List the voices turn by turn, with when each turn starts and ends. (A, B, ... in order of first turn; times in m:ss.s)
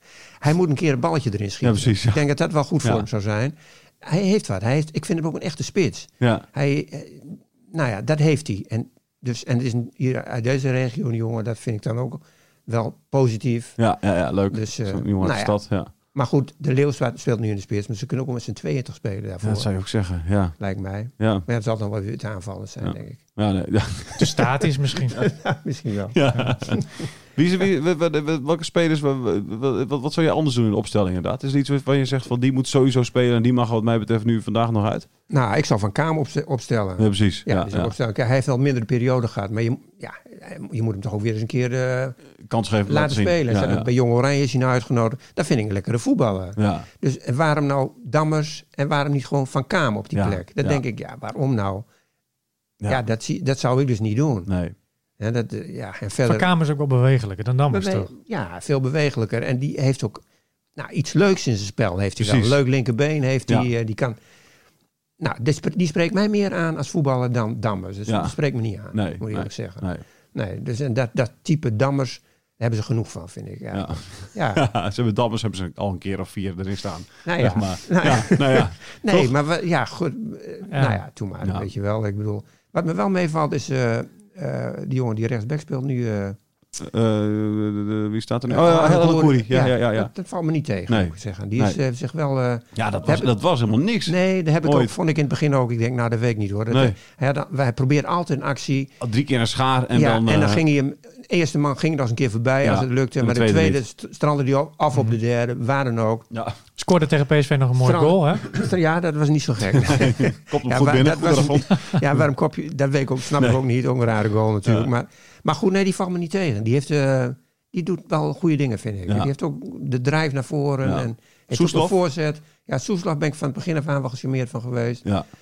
0:00.4-0:13.8 A
0:01.6-0:02.2 B
0:06.2-0:06.4 B
0:13.8-0:15.9 B
0:14.5-0:19.7 A
0:19.4-0:20.6 B
0:20.6-0:23.2 A
0:21.2-0:21.4 B
0:22.8-0:24.5 B
0:24.2-0:25.4 C
0:25.1-0:27.1 A
0:26.1-0:35.1 B
0:35.3-0:42.2 A
0:37.0-0:37.9 B
0:42.4-0:43.9 B
0:42.9-0:51.8 A
0:46.6-0:46.9 B
0:50.1-0:50.8 B
0:52.9-0:54.5 A
0:54.5-0:54.7 B
0:55.2-0:56.5 A
0:56.2-0:58.1 C
0:57.7-1:00.2 A
1:00.8-1:04.2 A
1:02.2-1:02.6 B
1:05.2-1:14.6 A
1:08.1-1:08.4 B
1:08.9-1:10.0 B
1:13.7-1:19.3 B
1:17.2-1:26.4 A
1:20.7-1:21.0 C
1:21.4-1:21.7 B
1:26.8-1:30.1 B
1:28.5-1:33.3 A
1:30.9-1:31.8 B
1:32.7-1:34.9 B
1:34.0-1:39.0 A
1:36.7-1:37.0 B
1:39.0-1:40.6 B
1:39.9-1:46.3 A
1:42.6-1:43.8 B
1:46.3-1:46.6 B
1:46.8-1:48.5 C
1:47.8-2:05.0 A
1:49.8-1:52.2 B
2:00.8-2:01.9 B